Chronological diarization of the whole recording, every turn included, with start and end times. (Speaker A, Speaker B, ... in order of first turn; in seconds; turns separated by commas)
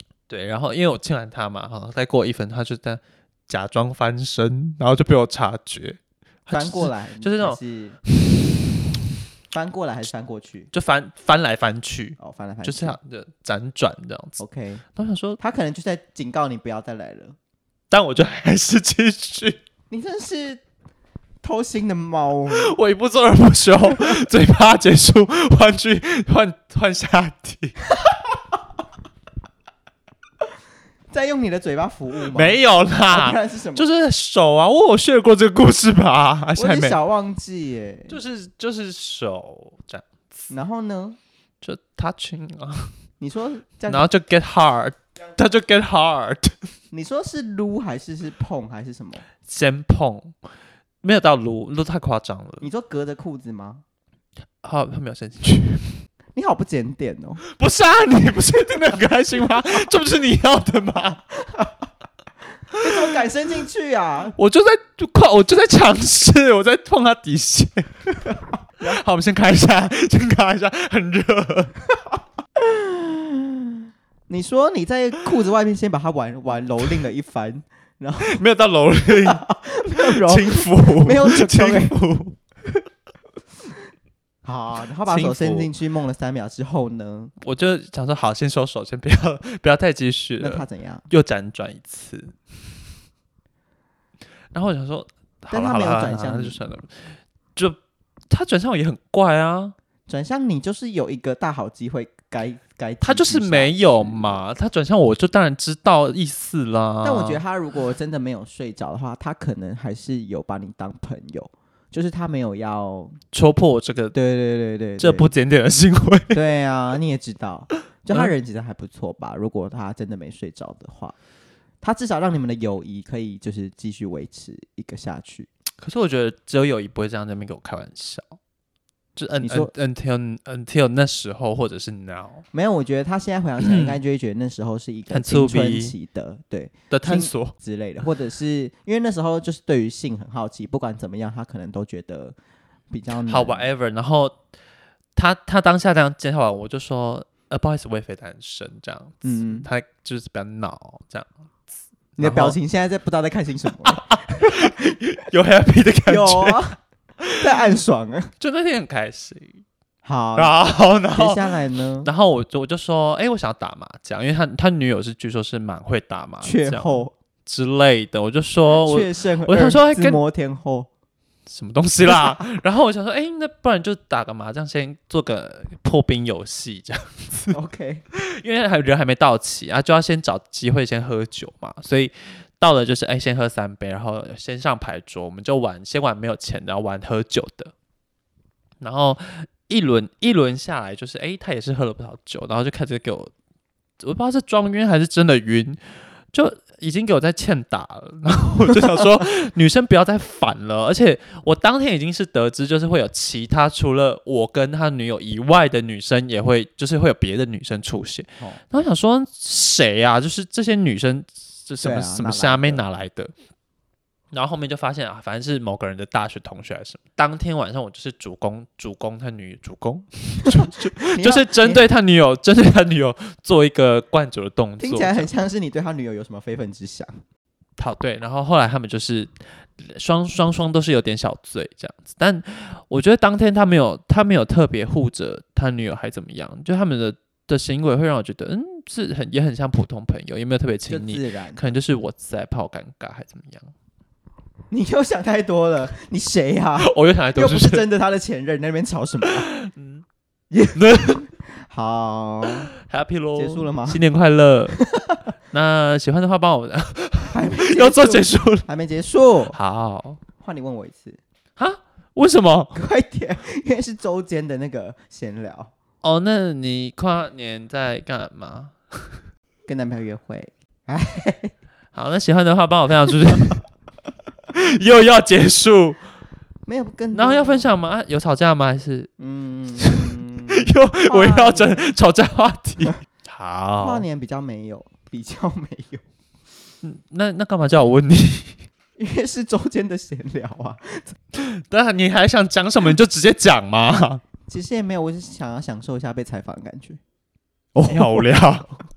Speaker A: 0.3-7.6, Speaker B: 6.5-8.0, Speaker A: 8.2-8.5, Speaker B: 9.5-10.7, Speaker A: 10.7-14.4, Speaker B: 12.2-13.0, Speaker B: 14.4-14.8, Speaker A: 14.9-15.4, Speaker B: 15.4-17.4, Speaker A: 17.9-19.6, Speaker B: 19.9-20.6, Speaker B: 21.4-22.7, Speaker A: 22.5-27.8, Speaker B: 28.0-28.5, Speaker B: 31.1-33.9, Speaker A: 32.3-37.0, Speaker B: 36.6-38.2, Speaker A: 38.1-40.5, Speaker B: 40.5-41.2, Speaker A: 41.6-42.9, Speaker B: 43.2-44.1, Speaker A: 43.9-46.6, Speaker B: 46.9-49.2, Speaker A: 49.5-50.3, Speaker A: 51.0-52.7, Speaker B: 52.6-53.8, Speaker A: 54.6-56.0, Speaker B: 56.3-57.4, Speaker A: 57.5-61.2, Speaker B: 61.4-61.9, Speaker B: 62.8-64.4, Speaker A: 64.3-67.9, Speaker B: 68.3-69.0, Speaker A: 68.8-71.7, Speaker B: 72.6-78.4, Speaker A: 78.2-79.4, Speaker B: 79.2-82.0, Speaker A: 79.9-82.3, Speaker B: 84.4-87.3, Speaker A: 85.0-85.7, Speaker A: 87.4-92.4, Speaker B: 90.4-91.0, Speaker A: 94.5-97.8, Speaker B: 95.5-96.6, Speaker A: 98.3-99.7, Speaker B: 100.1-104.4, Speaker A: 103.0-107.4, Speaker B: 107.0-113.2, Speaker A: 113.3-114.1, Speaker B: 114.1-115.3, Speaker A: 115.0-116.4, Speaker B: 116.3-121.1, Speaker B: 121.8-125.5, Speaker A: 125.8-128.4, Speaker A: 129.2-132.4, Speaker B: 129.4-129.7, Speaker B: 132.5-142.3, Speaker A: 133.6-134.0, Speaker A: 135.1-135.9, Speaker A: 136.9-137.5, Speaker B: 142.9-143.7, Speaker A: 143.2-144.3, Speaker A: 145.2-151.3, Speaker B: 149.2-149.7, Speaker B: 152.2-154.7, Speaker A: 152.2-152.6, Speaker A: 153.8-156.6, Speaker B: 156.1-156.8, Speaker A: 157.2-157.6, Speaker B: 157.3-158.3, Speaker A: 158.4-159.6, Speaker B: 160.0-160.6, Speaker A: 160.3-170.2, Speaker B: 161.1-162.1, Speaker B: 166.4-167.1, Speaker B: 168.7-170.9, Speaker A: 171.5-177.6, Speaker B: 177.5-178.0, Speaker A: 178.1-187.7, Speaker A: 188.8-193.3, Speaker A: 194.0-195.8, Speaker A: 196.3-213.3, Speaker B: 211.8-212.8, Speaker A: 214.3-225.3, Speaker B: 220.4-221.9, Speaker B: 224.8-227.1, Speaker A: 227.8-243.7, Speaker B: 240.9-241.6, Speaker B: 244.7-249.5, Speaker A: 246.8-247.9, Speaker A: 249.3-250.0, Speaker B: 250.5-252.7, Speaker A: 250.7-251.2, Speaker A: 252.8-254.8, Speaker B: 253.3-254.0, Speaker B: 254.7-255.3, Speaker A: 255.5-258.7, Speaker B: 257.2-259.6, Speaker A: 259.5-260.2, Speaker B: 260.4-261.2, Speaker A: 261.6-262.8, Speaker B: 262.7-265.7, Speaker A: 266.0-269.2, Speaker B: 269.7-271.5, Speaker A: 271.9-273.6, Speaker A: 274.5-276.0, Speaker B: 276.6-277.7, Speaker A: 277.1-279.1, Speaker B: 279.2-281.9, Speaker A: 279.8-284.1, Speaker B: 283.8-286.0, Speaker A: 286.8-288.6, Speaker B: 289.0-291.1, Speaker A: 291.4-294.2, Speaker B: 294.5-297.0, Speaker B: 297.7-298.3, Speaker A: 297.8-298.8